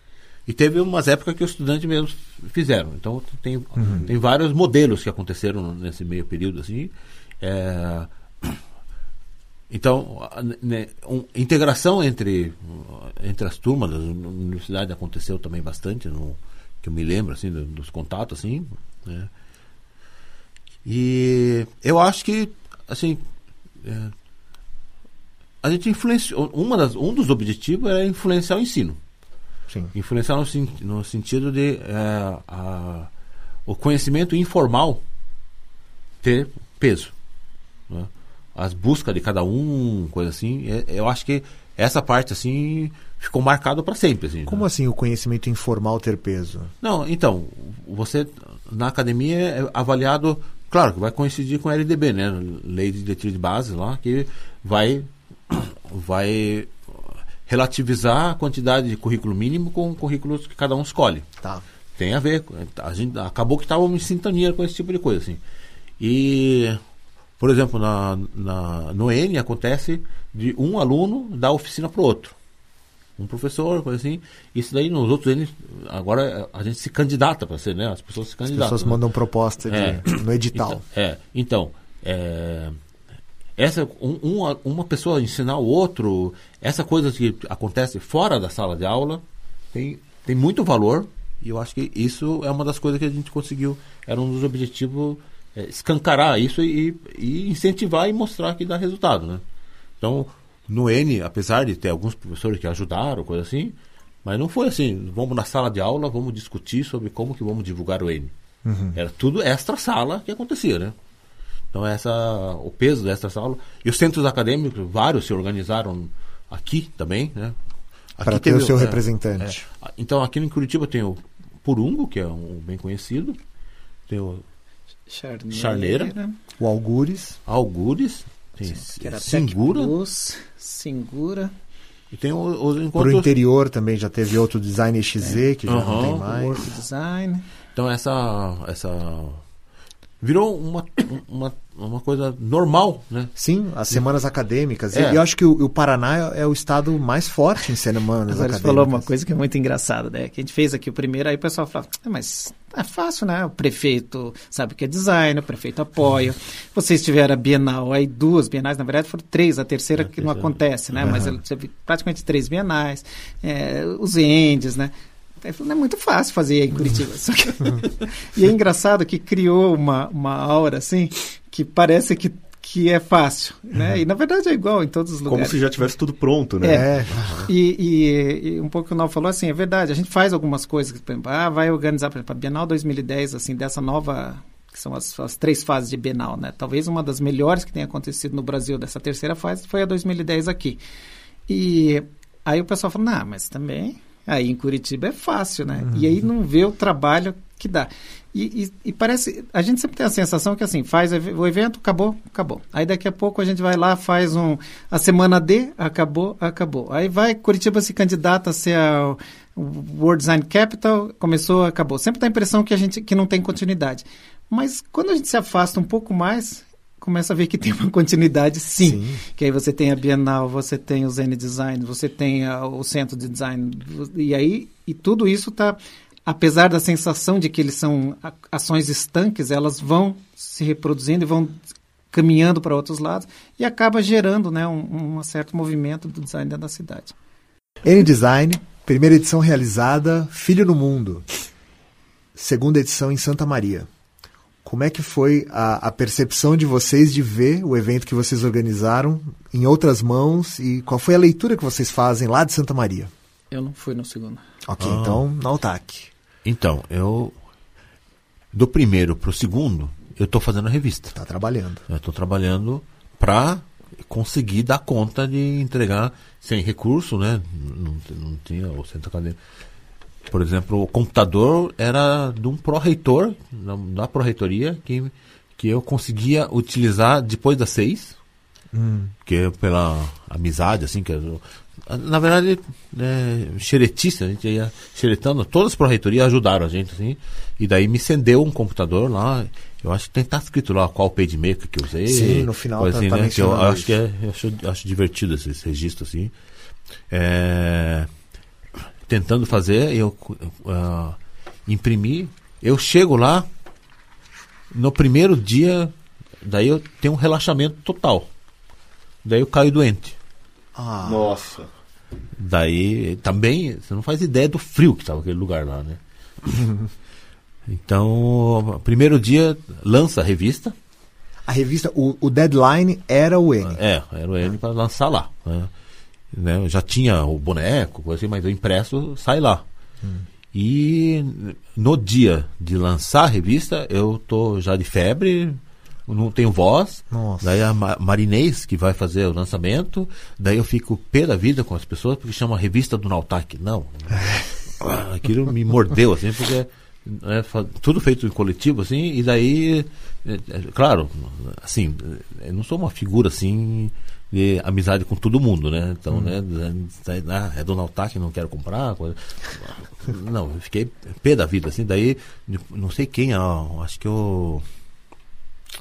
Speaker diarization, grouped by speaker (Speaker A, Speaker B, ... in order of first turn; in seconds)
Speaker A: 0.5-8.6, 9.7-19.3, 20.9-23.2, 23.8-24.1, 25.6-29.0, 29.9-33.1, 33.7-35.0, 36.2-37.1, 37.9-44.7, 46.8-61.3, 62.0-65.4, 66.0-66.8, 67.4-72.3, 73.2-79.0, 79.7-82.8, 83.6-99.4, 100.0-108.3, 108.9-111.0, 111.7-117.5, 118.2-123.4, 124.1-124.4, 125.5-126.1, 127.5-129.9, 132.1-133.3, 135.7-136.3, 137.8-139.4, 140.2-143.3, 144.9-145.2, 160.0-160.6, 177.1-177.5, 254.8-255.2, 256.4-257.4, 258.5-261.1, 261.9-269.4, 270.3-278.2, 279.3-296.3, 297.1-298.1, 299.1-303.5, 304.7-308.3, 309.2-310.2, 312.4-316.6, 317.7-320.7, 323.6-325.7, 326.3-329.6, 330.5-364.7
Speaker B: 3.8-4.0, 44.5-46.7, 78.5-80.8, 108.7-109.0, 118.2-119.6, 126.6-127.4, 132.9-136.6, 143.4-149.1, 161.0-161.4, 176.7-177.4, 195.8-196.1, 218.8-219.2, 237.8-241.3, 242.3-243.9, 244.6-253.1, 254.7-256.1, 261.1-261.9, 278.7-279.1, 292.1-293.9, 310.8-311.3, 321.5-323.8, 337.1-337.4
Speaker C: 125.1-126.4, 128.7-131.5, 136.1-137.4, 148.3-175.6, 176.6-176.9, 177.4-190.8, 191.5-231.6, 232.1-237.2, 253.5-254.4
Speaker D: 175.3-176.9, 311.0-311.7